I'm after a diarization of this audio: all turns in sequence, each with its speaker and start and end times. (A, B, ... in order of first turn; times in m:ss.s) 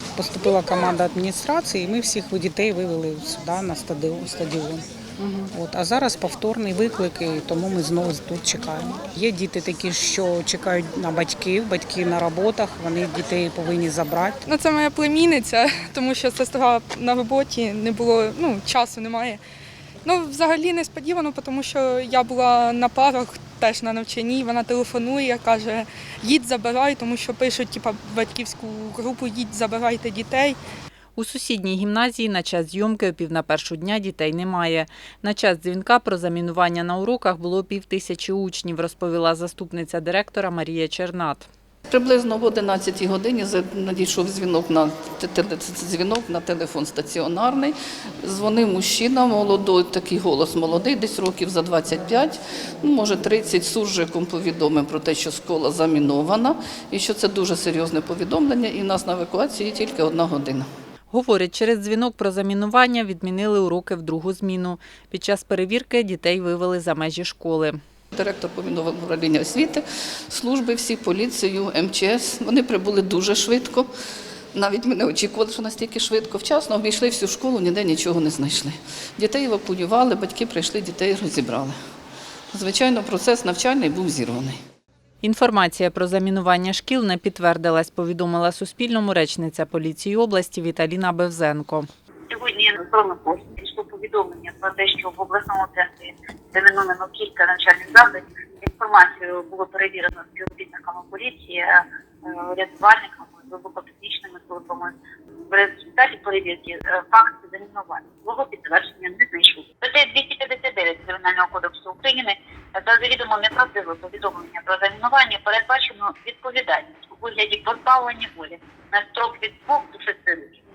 0:00.2-0:04.8 A
0:05.4-0:14.4 A
0:14.5-0:19.4 B
0:20.0-0:30.6 B
0:31.2-0:41.5 C
0:41.9-1:00.7 D
1:01.1-1:07.8 C
1:08.1-1:13.9 D
1:14.6-1:21.8 D
1:22.5-1:24.6 D
1:25.2-1:31.9 C
1:32.3-1:45.0 E
1:45.5-2:00.6 E